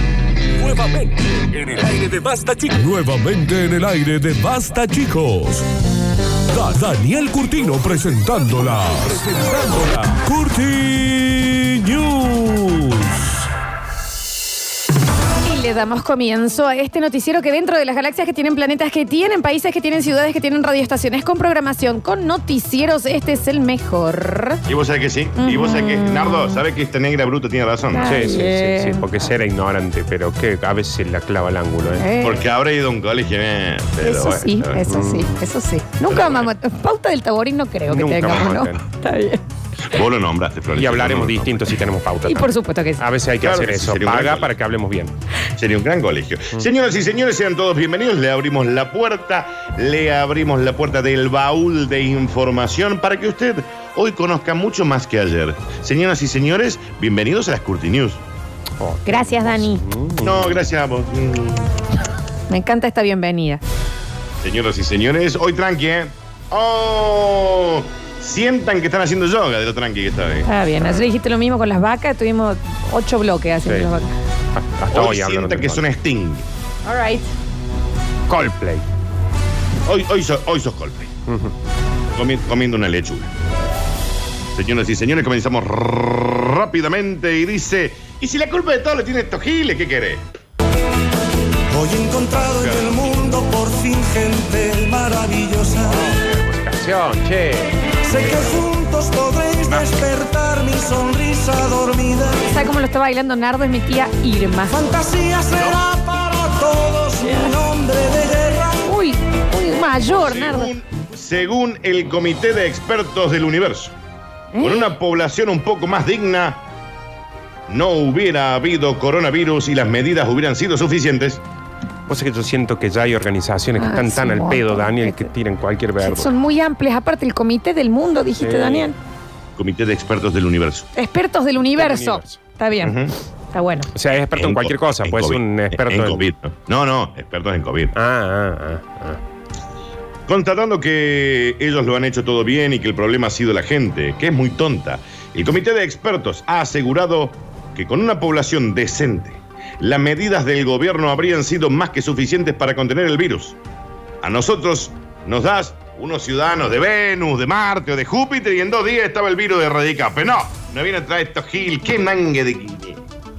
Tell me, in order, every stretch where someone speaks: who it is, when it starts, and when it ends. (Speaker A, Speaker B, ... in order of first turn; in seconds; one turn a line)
Speaker A: 0.6-5.7
Speaker A: 6.5-13.3
Speaker B: 15.4-24.6
Speaker C: 24.6-28.2
Speaker B: 25.4-26.6
Speaker B: 27.9-29.1
Speaker D: 28.0-32.0
Speaker B: 32.0-32.4
Speaker C: 32.2-34.8
Speaker B: 34.0-39.4
Speaker D: 34.9-35.3
Speaker C: 36.1-36.5
Speaker D: 37.9-38.8
Speaker C: 39.9-41.7
Speaker D: 40.7-45.1
Speaker B: 42.2-43.0
Speaker C: 43.4-44.5
Speaker C: 45.6-58.2
Speaker D: 58.8-60.7
Speaker B: 59.0-59.8
Speaker C: 60.2-61.7
Speaker B: 62.5-63.6
Speaker C: 64.4-70.5
Speaker B: 70.4-74.1
Speaker D: 73.6-73.9
Speaker D: 74.5-75.8
Speaker C: 74.9-76.4
Speaker B: 76.8-77.3
Speaker D: 78.3-78.8
Speaker C: 79.8-81.1
Speaker D: 81.3-81.5
Speaker C: 82.1-83.3
Speaker C: 84.5-90.2
Speaker E: 91.7-96.0
Speaker C: 92.4-93.3
Speaker D: 95.8-98.5
Speaker E: 98.0-102.4
Speaker B: 102.5-104.8
Speaker E: 104.7-108.8
Speaker C: 105.5-105.8
Speaker B: 107.2-107.6
Speaker B: 108.8-110.7
Speaker C: 110.1-113.9
Speaker B: 114.5-114.9
Speaker C: 114.6-116.6
Speaker C: 117.7-121.4
Speaker D: 122.1-126.3
Speaker B: 123.8-125.3
Speaker B: 126.0-129.0
Speaker D: 128.4-128.9
Speaker C: 129.6-130.9
Speaker B: 130.9-132.9
Speaker D: 131.8-132.4
Speaker C: 132.8-133.1
Speaker B: 133.5-133.9
Speaker D: 133.9-136.3
Speaker C: 134.3-137.9
Speaker D: 137.9-139.2
Speaker C: 140.3-153.6
Speaker C: 154.2-163.0